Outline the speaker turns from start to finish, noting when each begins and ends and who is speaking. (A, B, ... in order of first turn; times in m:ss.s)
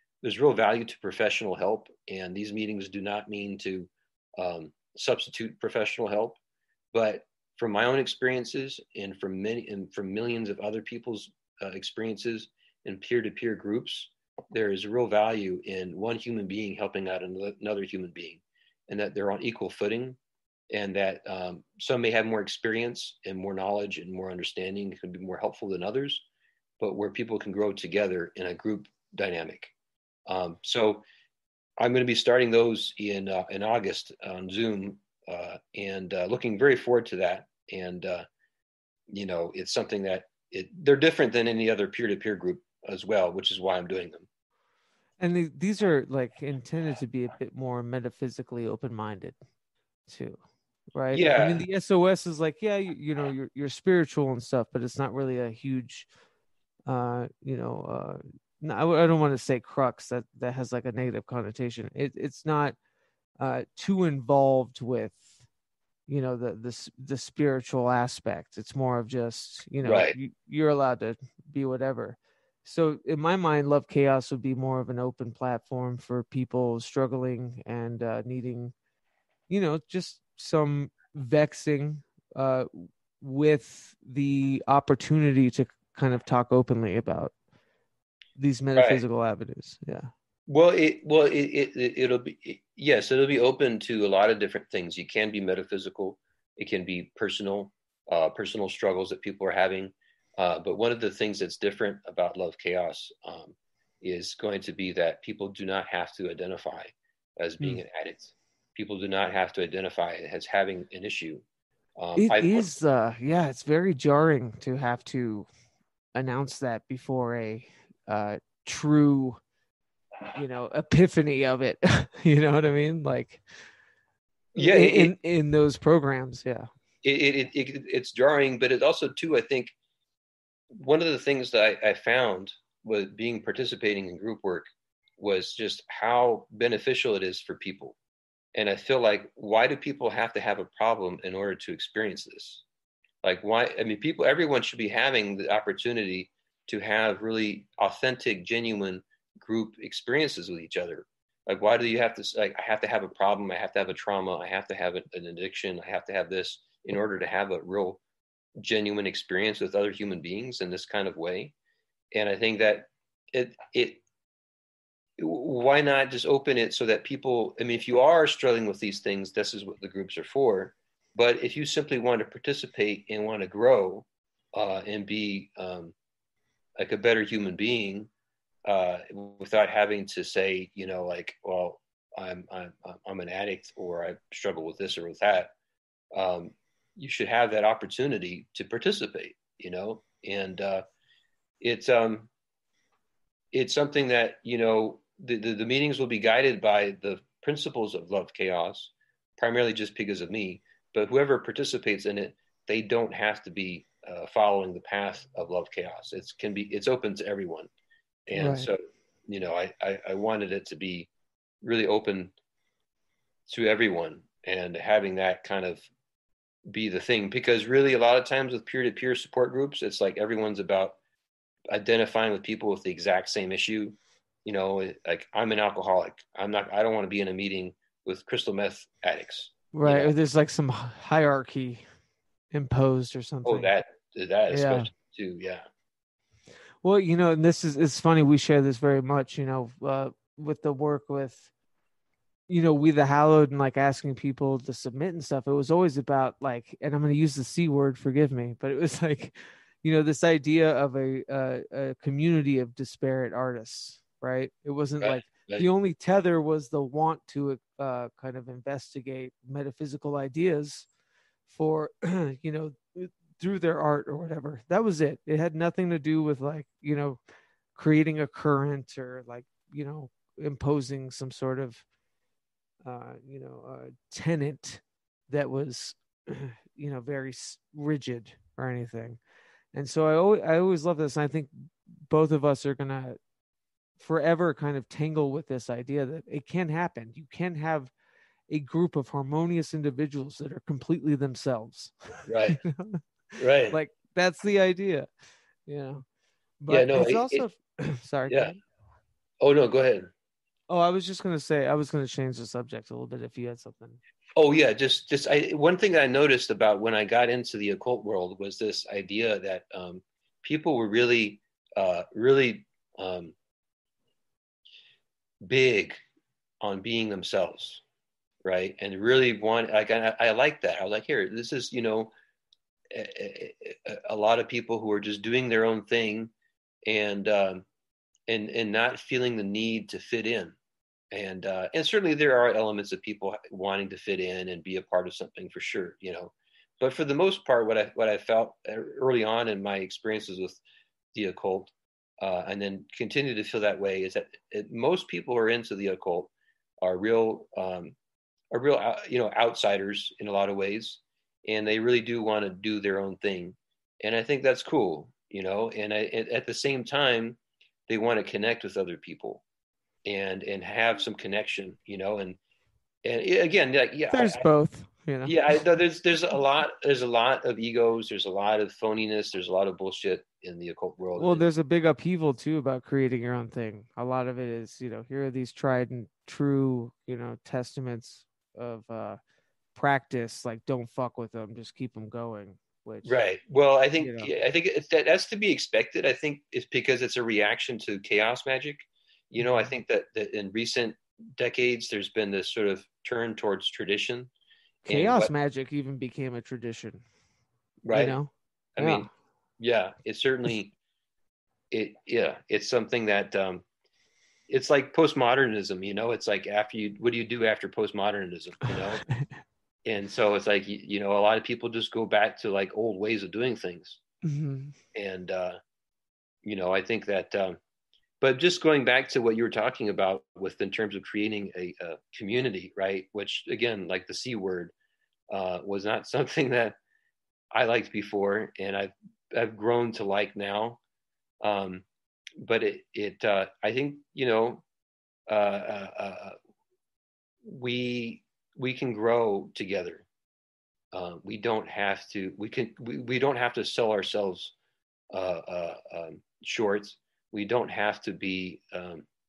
0:00.2-0:06.4 A
0:06.9-0:20.2 A
0:20.7-0:26.2 A
0:26.8-0:29.7 A
0:30.3-0:31.0 A
0:31.8-0:38.2 A
0:39.1-0:44.3 A
0:45.2-0:49.4 B
0:50.1-0:50.4 B
0:50.9-0:56.1 B
0:51.1-0:51.6 A
0:56.9-1:02.8 B
1:03.4-1:05.3 B
1:06.1-1:18.7 B
1:09.8-1:10.1 A
1:19.5-1:27.3 B
1:28.4-1:30.1 B
1:28.8-1:29.0 A
1:30.5-1:51.4 A
1:52.0-1:52.7 A
1:52.2-1:55.5 B
1:56.1-1:59.4 B
2:00.3-2:03.4 B
2:04.5-2:05.1 A
2:04.6-2:06.7 B
2:07.0-2:09.7 A
2:10.7-2:14.6 A
2:15.2-2:18.0 A
2:18.5-2:22.6 A
2:23.2-2:38.0 A
2:38.6-2:41.5 A
2:42.1-2:44.0 A
2:45.2-2:55.9 A
2:56.8-2:58.1 A
2:58.6-3:05.5 A
3:06.1-3:10.8 A
3:11.6-3:12.3 A
3:13.5-3:27.7 A
3:28.3-3:31.1 A
3:28.3-3:28.7 B
3:31.6-3:32.3 A
3:33.5-3:35.9 A
3:36.6-3:41.0 A
3:41.7-3:50.1 A
3:49.7-3:51.8 B
3:52.5-3:53.7 B
3:53.4-3:55.6 A
3:54.5-3:54.9 B
3:56.8-4:01.5 B
4:02.5-4:20.9 B
4:15.0-4:15.7 A
4:21.5-4:27.2 B
4:27.7-4:31.8 B
4:32.8-4:39.2 B
4:39.7-4:43.2 B
4:44.0-4:47.9 B
4:48.5-4:53.0 B
4:52.3-4:52.6 A
4:53.4-4:53.8 A
4:53.7-4:55.1 B
4:55.6-4:56.0 B
4:56.6-4:58.6 B
4:56.7-4:57.4 A
4:58.3-4:58.5 A
4:59.4-5:00.1 A
5:00.7-5:04.0 B
5:04.4-5:13.3 A
5:15.4-5:16.0 A
5:16.6-5:17.8 A
5:18.4-5:22.1 A
5:22.9-5:26.3 A
5:26.8-5:27.6 A
5:28.3-5:30.6 A
5:31.1-5:40.6 A
5:41.1-5:46.3 A
5:46.8-5:47.9 A
5:48.5-5:59.4 A
6:00.0-6:02.4 A
6:03.0-6:04.4 A
6:04.1-6:05.4 B
6:05.2-6:11.4 A
6:11.2-6:19.2 B
6:19.7-6:23.2 B
6:23.0-6:34.3 A
6:24.0-6:24.3 B
6:29.4-6:29.7 B
6:34.8-6:37.0 B
6:34.9-6:35.3 A
6:37.8-6:38.2 A
6:37.9-6:39.1 B
6:38.8-6:39.1 A
6:39.6-6:40.7 A
6:41.7-6:43.6 A
6:44.5-6:49.0 A
6:49.8-6:54.0 A
6:54.2-6:54.8 B
6:54.9-6:55.6 A
6:56.4-6:57.6 A
6:58.2-7:04.7 A
7:05.3-7:06.8 A
7:07.5-7:10.8 A
7:11.4-7:11.8 A
7:12.4-7:14.6 A
7:15.3-7:16.4 A
7:17.4-7:20.1 A
7:20.9-7:24.5 A
7:25.1-7:29.0 A